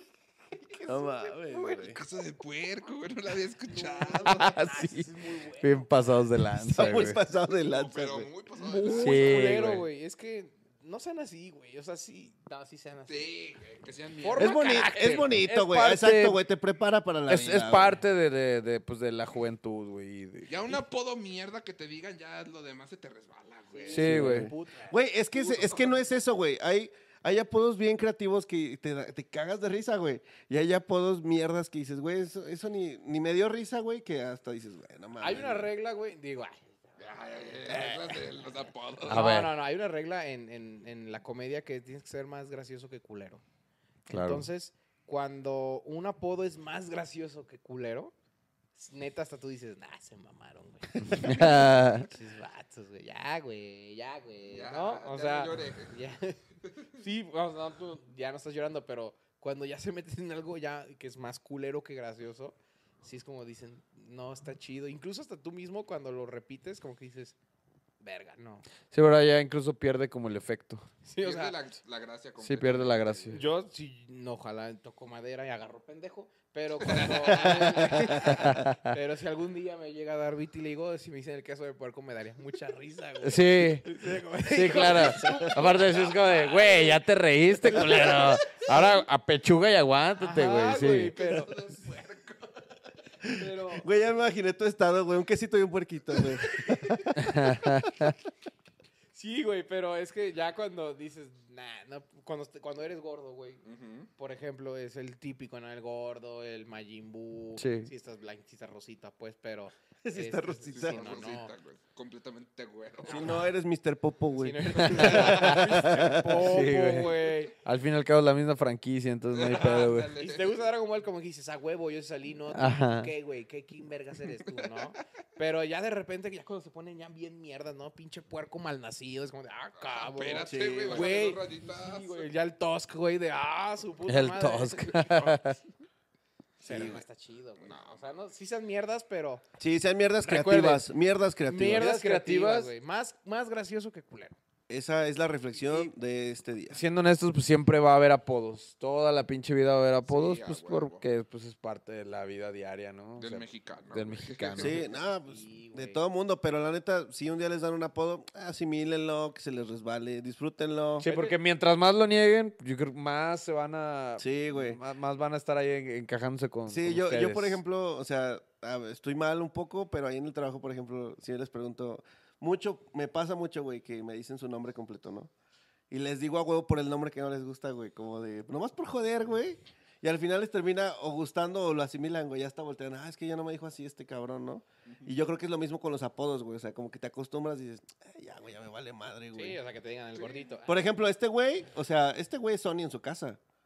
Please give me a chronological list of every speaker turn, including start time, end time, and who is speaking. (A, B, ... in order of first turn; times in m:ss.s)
0:00.6-0:02.0 A
0:00.8-0:02.0 B
0:01.9-0:04.5 C
0:03.6-0:05.9 A
0:04.2-0:07.2 D
0:06.6-0:08.3 B
0:07.5-0:09.6 C
0:08.6-0:13.3 A
0:08.9-0:09.8 D
0:13.1-0:14.6 C
0:14.2-0:15.4 A
0:14.4-0:18.0 B
0:15.2-0:16.4 D
0:17.3-0:20.5 D
0:20.5-0:24.1 C
0:23.7-0:25.0 A
0:23.9-0:24.5 D
0:23.9-0:35.7 B
0:25.3-0:25.9 C
0:35.2-0:37.0 A
0:37.0-0:39.3 C
0:37.6-0:38.4 A
0:39.0-0:39.5 D
0:39.1-0:43.4 A
0:44.1-0:48.1 A
0:44.1-0:44.4 D
0:48.7-0:56.4 A
0:51.1-0:52.1 D
0:54.5-0:55.9 C
0:56.9-1:07.4 A
1:08.0-1:08.6 A
1:08.9-1:10.9 D
1:11.0-1:11.6 A
1:11.2-1:13.4 C
1:12.4-1:13.4 D
1:13.3-1:27.0 A
1:16.8-1:17.5 C
1:17.3-1:18.6 B
1:18.2-1:18.9 D
1:23.2-1:23.9 D
1:24.5-1:31.2 D
1:25.1-1:25.4 B
1:27.6-1:29.0 A
1:30.2-1:32.2 A
1:31.2-1:32.3 C
1:33.2-1:37.5 B
1:33.2-1:33.9 A
1:37.1-1:38.1 D
1:39.1-1:43.6 A
1:43.6-1:44.1 C
1:44.2-1:51.5 A
1:47.6-1:47.9 D
1:50.0-1:51.2 B
1:50.7-1:53.4 C
1:53.0-1:56.4 B
1:53.1-1:53.4 A
1:54.4-1:57.6 A
1:54.8-1:55.6 D
1:56.3-2:00.1 D
1:59.3-2:00.7 C
2:00.2-2:15.1 A
2:02.5-2:03.1 D
2:09.8-2:12.2 C
2:10.4-2:11.2 B
2:14.1-2:15.6 D
2:16.6-2:19.4 A
2:16.6-2:17.0 B
2:17.6-2:18.0 C
2:19.6-2:21.9 B
2:20.2-2:20.8 A
2:21.4-2:24.4 A
2:21.6-2:22.7 D
2:24.7-2:26.8 B
2:26.7-2:34.8 D
2:30.0-2:31.0 C
2:33.2-2:34.8 C
2:34.6-2:41.1 B
2:35.0-2:36.0 A
2:41.0-2:41.4 A
2:41.0-2:47.6 D
2:44.2-2:44.8 B
2:46.7-2:55.3 B
2:55.9-3:09.6 B
3:09.3-3:10.8 A
3:10.6-3:13.4 B